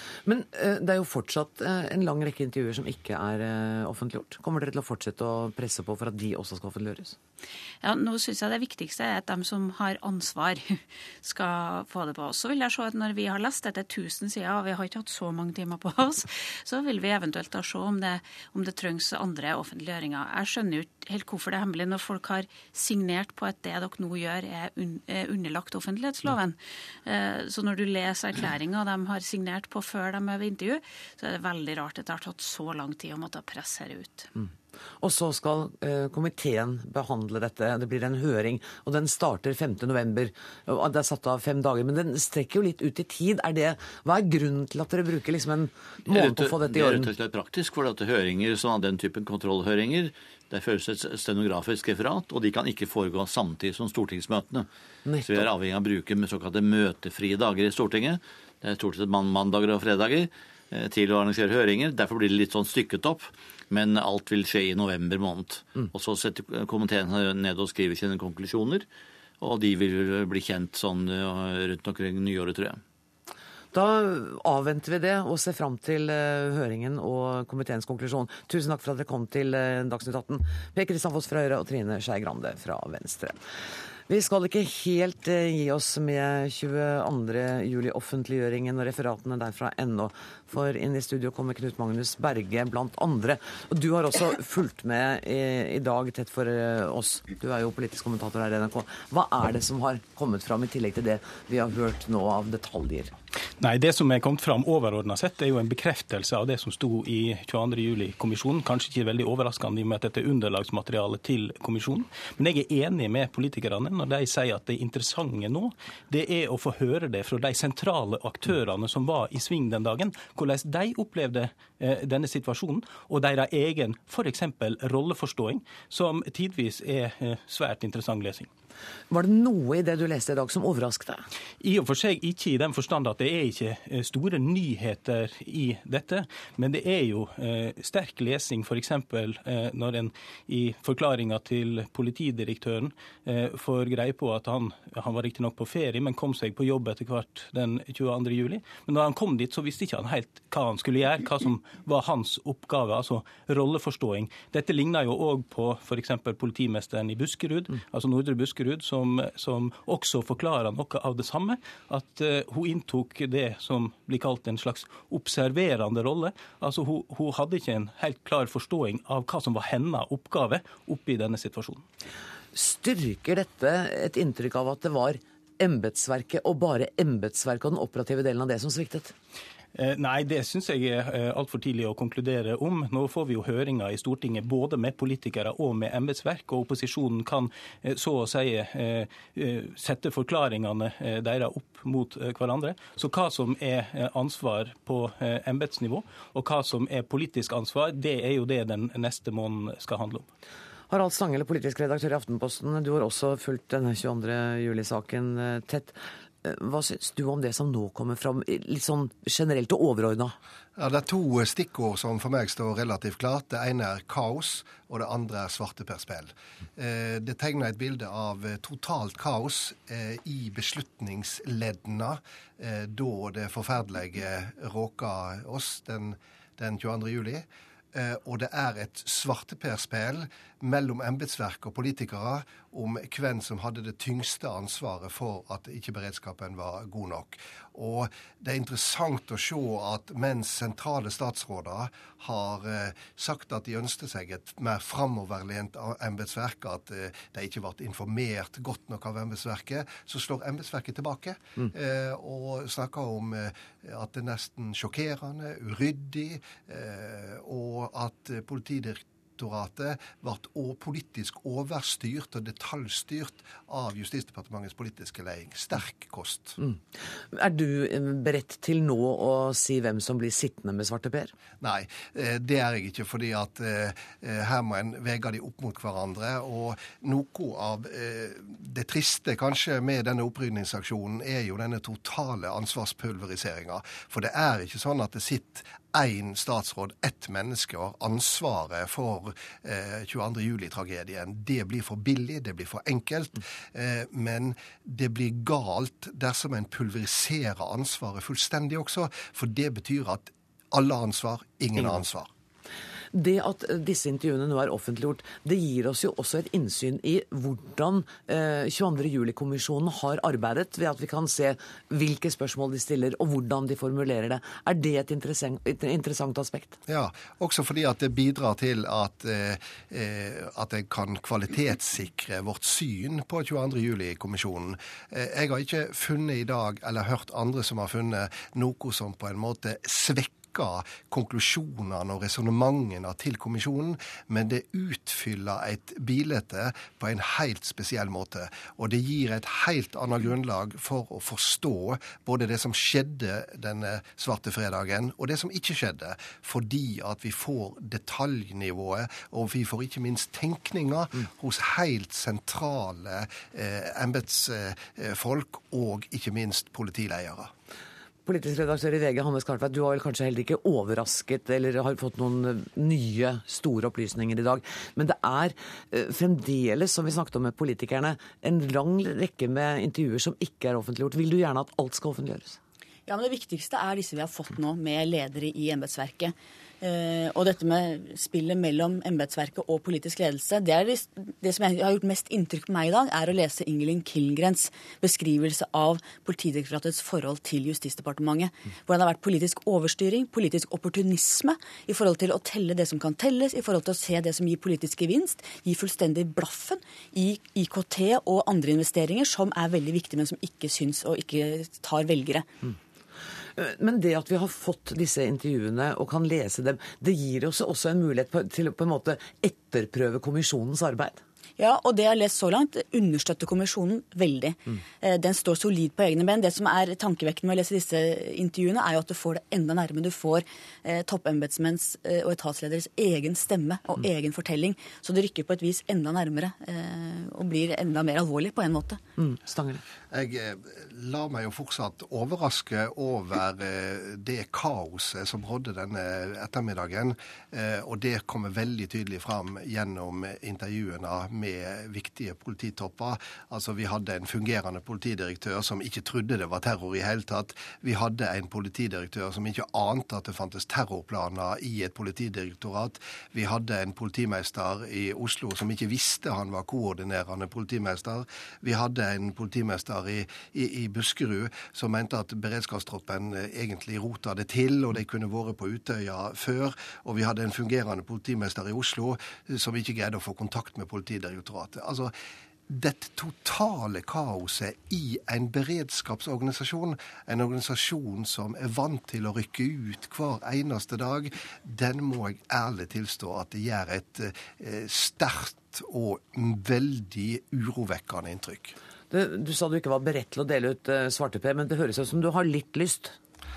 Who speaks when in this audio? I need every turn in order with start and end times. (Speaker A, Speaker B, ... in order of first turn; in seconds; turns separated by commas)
Speaker A: 0.2-7.2, Speaker B: 7.8-34.3, Speaker A: 35.0-47.1, Speaker C: 46.1-54.7, Speaker A: 55.1-55.5, Speaker C: 55.2-68.9, Speaker C: 69.4-72.8, Speaker A: 73.7-83.4, Speaker A: 84.1-103.1, Speaker D: 103.6-128.5, Speaker A: 129.1-131.2, Speaker D: 131.6-171.8, Speaker A: 172.5-179.2, Speaker D: 179.8-200.3, Speaker A: 200.9-210.3, Speaker E: 210.8-266.6, Speaker A: 267.3-271.3, Speaker E: 271.6-302.3, Speaker A: 303.1-316.8, Speaker E: 316.9-357.5, Speaker A: 358.3-372.6, Speaker F: 373.1-402.5, Speaker A: 403.6-411.2, Speaker F: 411.6-429.0, Speaker A: 429.2-429.8, Speaker E: 430.1-472.1, Speaker E: 472.7-488.8, Speaker A: 489.1-493.2